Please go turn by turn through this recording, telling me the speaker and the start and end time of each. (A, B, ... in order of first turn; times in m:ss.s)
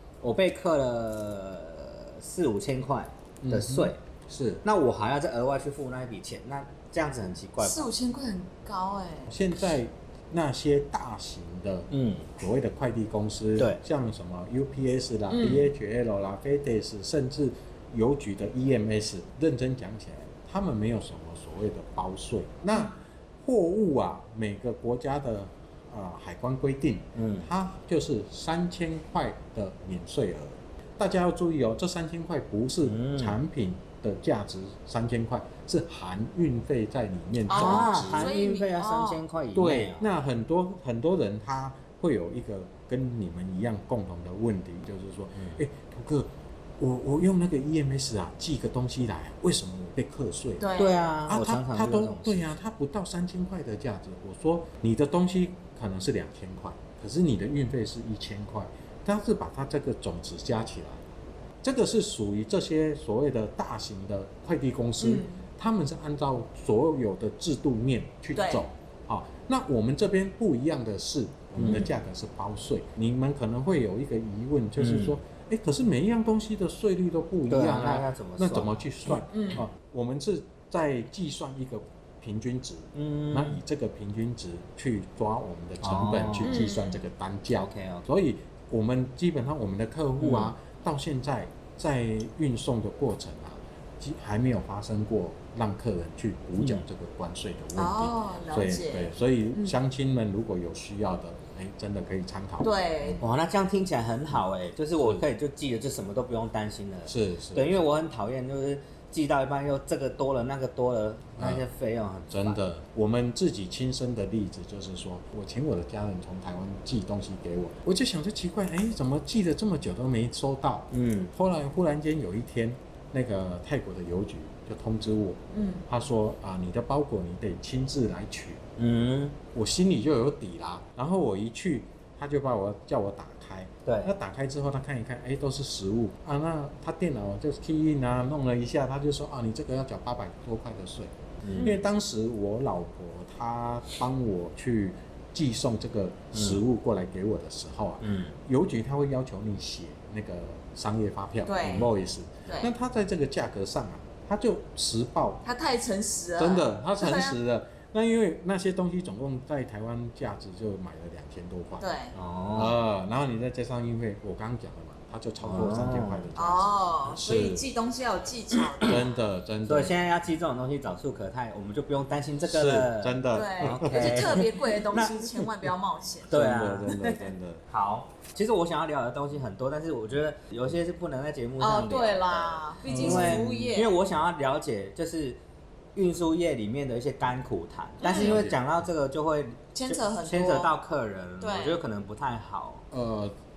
0:00.2-0:04.0 A
0:03.4-0:04.6 B
0:04.6-0:07.9 A
0:07.6-0:09.3 C
0:09.3-0:38.3 B
0:11.9-0:12.3 A
0:15.3-0:15.7 C
0:27.1-0:27.5 A
0:32.8-0:33.4 A
0:37.5-0:39.2 C
0:37.5-0:40.1 A
0:39.5-0:50.7 B
0:45.4-0:45.6 A
0:50.6-0:51.0 C
0:50.8-0:52.5 A
0:51.3-1:01.0 B
1:01.6-1:43.2 B
1:05.0-1:05.4 C
1:08.4-1:08.6 C
1:11.6-1:11.9 A
1:14.8-1:15.2 A
1:17.5-1:19.2 A
1:19.3-1:19.6 C
1:22.9-1:23.6 A
1:25.8-1:26.7 A
1:26.4-1:27.0 C
1:27.6-1:28.1 A
1:30.2-1:30.5 A
1:36.6-1:36.8 A
1:37.8-1:39.8 C
1:42.6-1:43.2 C
1:43.2-1:52.6 A
1:47.1-1:47.8 B
1:51.4-1:51.6 B
1:52.3-2:08.6 B
2:00.9-2:01.3 A
2:05.5-2:05.9 C
2:08.8-2:09.4 A
2:09.5-2:35.4 B
2:13.9-2:14.1 A
2:21.4-2:21.7 A
2:21.6-2:21.8 C
2:26.3-2:26.6 A
2:28.0-2:28.4 A
2:31.4-2:31.9 C
2:35.4-2:37.4 C
2:36.4-2:41.9 B
2:41.8-2:42.1 C
2:42.1-2:42.8 A
2:42.5-2:47.6 B
2:45.4-2:46.3 A
2:46.4-2:49.1 C
2:48.8-2:50.0 B
2:49.6-2:55.2 A
2:52.5-2:55.4 B
2:53.3-2:56.9 C
2:56.3-2:57.6 B
2:56.3-3:05.4 A
3:01.6-3:03.9 C
3:02.8-3:03.6 B
3:05.9-3:12.8 A
3:08.0-3:08.4 C
3:08.1-3:08.6 B
3:09.8-3:10.7 C
3:11.4-3:11.8 C
3:12.9-3:13.4 B